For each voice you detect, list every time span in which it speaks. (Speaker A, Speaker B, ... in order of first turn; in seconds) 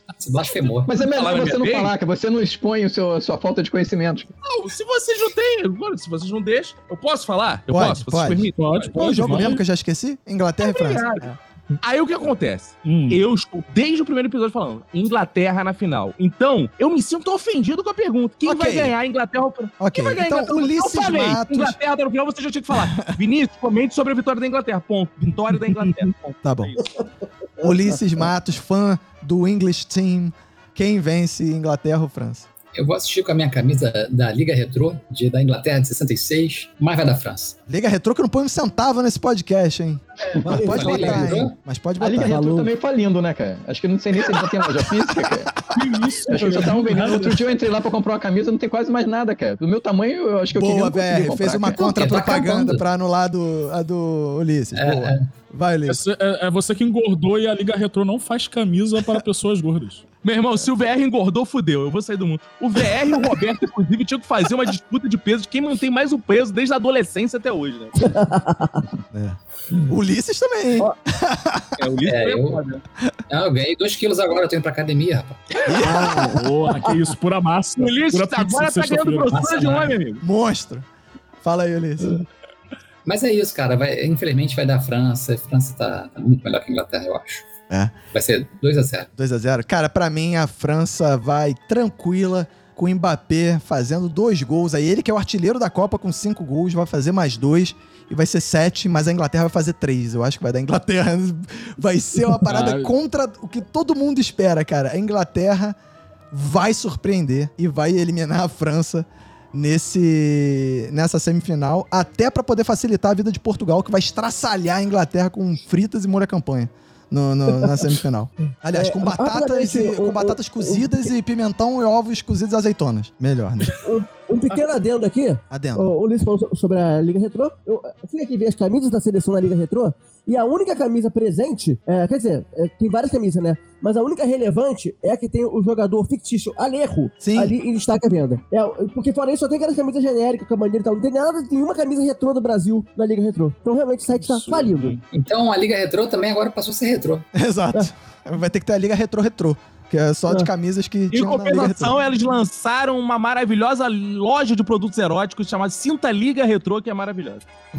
Speaker A: 0.2-0.9, 32.7-37.5, 40.6-41.5, 51.7-52.8, 54.7-55.2, 72.0-72.6, 73.3-75.7, 79.3-80.0, 83.0-87.5, 88.1-89.1, 145.1-147.2
Speaker B: 0.8-4.3, 42.0-45.6, 46.3-51.8
Speaker C: 1.1-1.9, 4.4-9.6, 10.6-11.3, 11.8-26.9, 60.2-68.1, 71.8-72.8, 77.8-80.2, 151.1-157.5
Speaker D: 7.7-11.4, 18.4-18.9, 19.8-21.8, 22.7-23.1, 26.4-26.7, 27.6-32.5, 37.7-42.4, 44.3-45.5, 50.5-56.0, 69.1-71.8, 75.7-76.4, 80.2-80.8, 81.4-82.2, 87.7-87.9, 89.2-105.8, 106.3-123.8, 125.5-125.9, 137.2-137.6, 147.3-151.9
Speaker E: 8.6-9.6, 12.8-13.2, 45.7-47.4, 55.9-60.0, 76.0-79.7, 102.4-102.9, 144.2-145.0
Speaker F: 40.4-41.4, 42.0-42.7, 68.0-68.8, 75.8-77.0, 118.7-121.1, 123.8-145.0